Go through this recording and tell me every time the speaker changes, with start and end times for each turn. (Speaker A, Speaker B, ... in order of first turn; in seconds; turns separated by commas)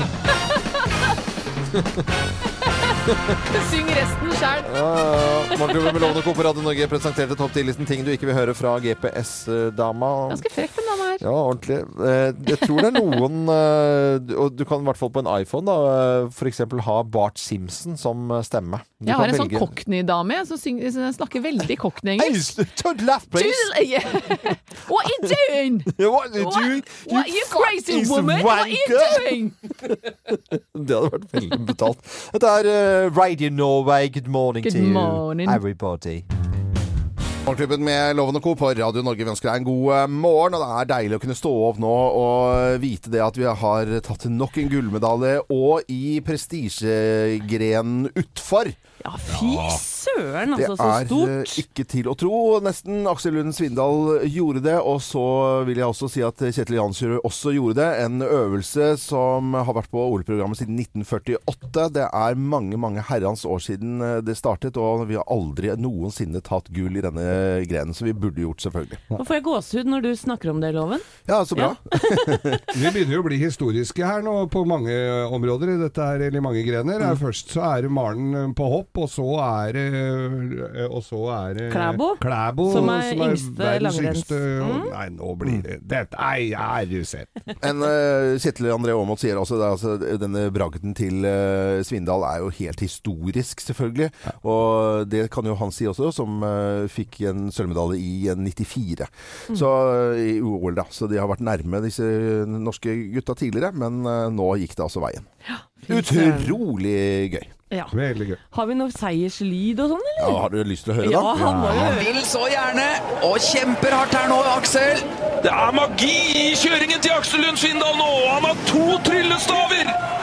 Speaker A: 3.5-4.7, Speaker B: 4.6-10.5, Speaker A: 5.5-6.0, Speaker A: 10.3-11.2, Speaker B: 11.2-19.8, Speaker A: 12.7-13.1, Speaker A: 19.0-22.6, Speaker B: 22.1-23.7, Speaker A: 23.3-29.6, Speaker B: 25.9-29.3, Speaker B: 30.7-36.2, Speaker A: 34.6-35.6, Speaker B: 37.4-48.8, Speaker C: 49.0-51.6, Speaker D: 49.3-49.8, Speaker B: 50.5-69.0, Speaker C: 69.2-72.4, Speaker B: 71.2-72.7, Speaker D: 72.7-87.3, Speaker C: 81.7-84.9, Speaker B: 87.6-105.3, Speaker C: 105.5-106.6, Speaker B: 105.9-107.5, Speaker D: 107.9-108.4, Speaker C: 108.5-110.4, Speaker B: 110.2-111.3, Speaker C: 111.0-112.2, Speaker D: 111.3-111.9, Speaker E: 111.5-115.1, Speaker F: 115.4-120.0